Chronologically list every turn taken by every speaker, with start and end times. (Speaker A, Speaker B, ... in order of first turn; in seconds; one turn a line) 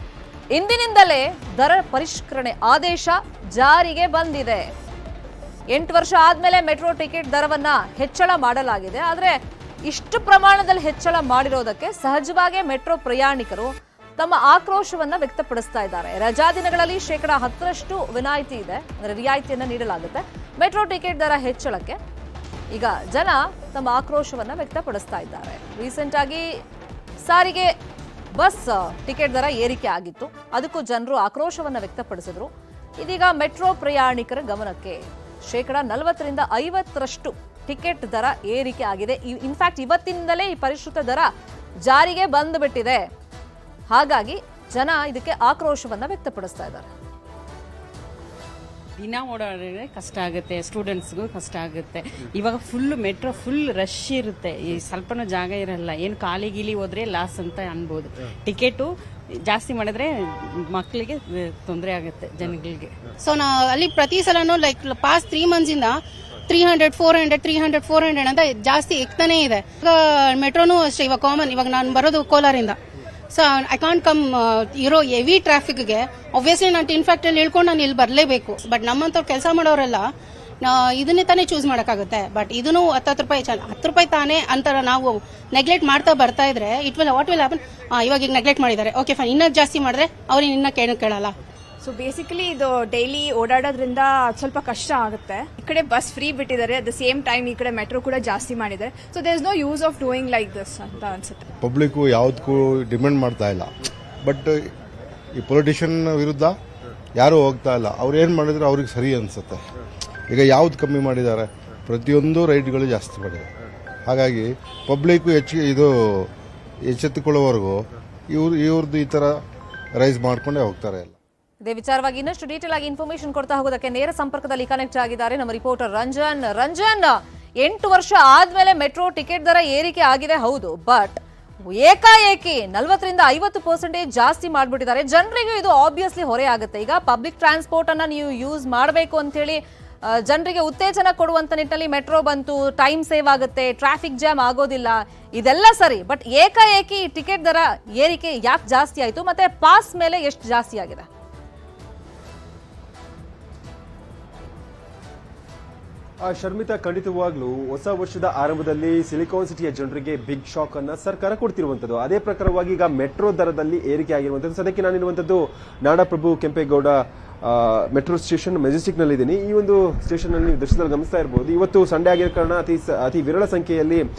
Speaker A: 0.5-4.7
Speaker A: 5.7-22.0
Speaker A: 22.7-26.4
Speaker A: 27.2-27.7
Speaker A: 28.3-32.5
Speaker A: 33.0-41.3
Speaker A: 41.8-43.0
Speaker A: 43.9-46.9
Speaker B: 49.0-62.9
Speaker C: 63.2-66.0
Speaker C: 66.5-72.8
Speaker C: 73.3-80.1
Speaker C: 80.6-91.3
Speaker D: 91.8-101.4
Speaker E: 101.6-103.7
Speaker E: 104.2-104.7
Speaker E: 105.3-106.5
Speaker E: 107.2-109.6
Speaker E: 110.3-113.5
Speaker E: 114.1-116.3
Speaker E: 116.8-119.4
Speaker E: 120.0-121.1
Speaker A: 121.6-131.2
Speaker A: 131.7-151.1
Speaker F: 156.2-174.0